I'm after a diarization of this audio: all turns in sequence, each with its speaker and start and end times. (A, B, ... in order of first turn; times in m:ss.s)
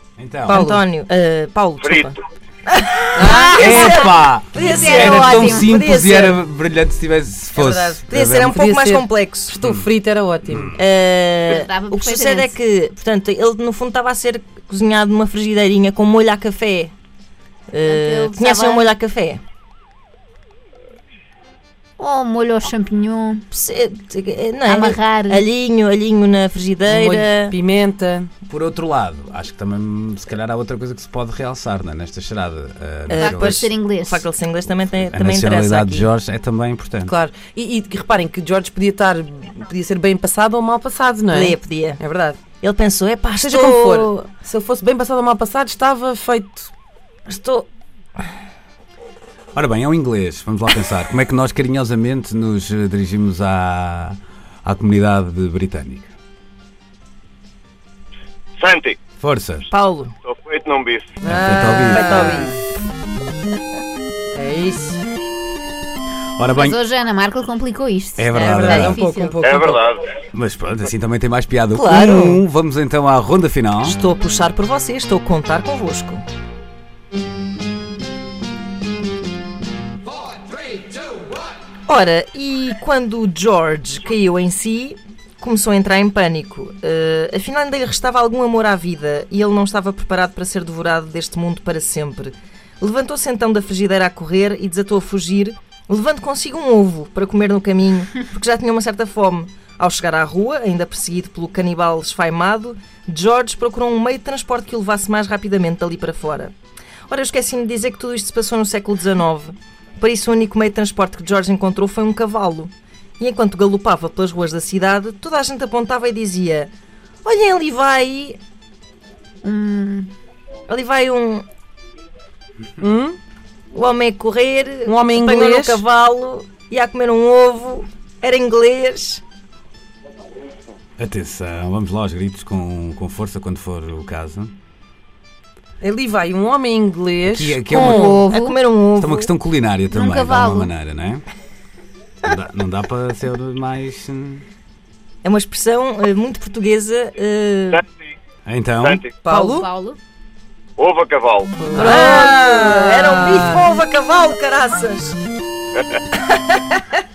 0:00.2-0:00.7 A
0:00.5-0:06.4 B
0:00.5-0:00.8 C
0:01.8-0:02.1 D
0:03.2-0:04.0 C
0:03.3-0:08.6 A
0:04.7-0:05.7 E
0:07.6-0:09.6 B
0:08.4-0:10.8 C
0:10.8-0:16.9 B
0:11.5-0:12.6 E
0:17.7-0:19.4 B
0:17.8-0:18.9 E
0:22.0-0:23.4 E
0:23.5-0:27.6 B
0:24.6-0:25.5 E
0:26.9-0:28.3 C
0:28.5-0:33.7 A
0:33.1-0:36.1 B
0:33.2-0:34.2 E
0:35.0-0:37.1 A
0:37.1-0:42.4 C
0:41.3-0:42.0 B
0:42.6-0:44.3 B
0:43.4-0:46.7 C
0:47.3-0:47.7 B
0:49.6-0:56.1 A
0:58.6-0:58.9 D
0:59.2-0:59.7 A
0:59.7-1:00.1 B
1:00.3-1:01.2 D
1:01.2-1:02.5 A
1:01.2-1:02.6 C
1:01.9-1:02.5 B
1:04.4-1:05.0 C
1:06.4-1:06.8 A
1:06.5-1:09.4 E
1:08.2-1:09.0 A
1:08.3-1:09.8 C
1:09.4-1:10.0 D
1:10.3-1:14.0 A
1:11.7-1:12.4 B
1:13.8-1:16.2 B
1:21.9-1:46.5 B
1:47.1-1:56.7 B
1:57.2-1:58.4 B
1:59.4-2:00.1 E
2:00.7-2:01.4 B
2:02.8-2:03.2 C
2:03.7-2:09.2 B
2:04.9-2:05.8 C
2:11.0-2:14.5 A
2:15.8-2:18.0 C
2:17.3-2:18.1 A
2:17.7-2:19.3 B
2:17.9-2:18.6 E
2:19.0-2:21.2 A
2:19.9-2:20.7 E
2:22.2-2:24.4 A
2:25.2-2:27.8 B
2:28.4-2:29.0 A
2:28.8-2:29.2 D
2:29.2-2:29.7 C
2:29.3-2:30.0 E
2:30.8-2:31.7 D
2:31.6-2:33.7 C
2:31.7-2:35.2 B
2:31.7-2:32.1 E
2:36.2-2:37.0 B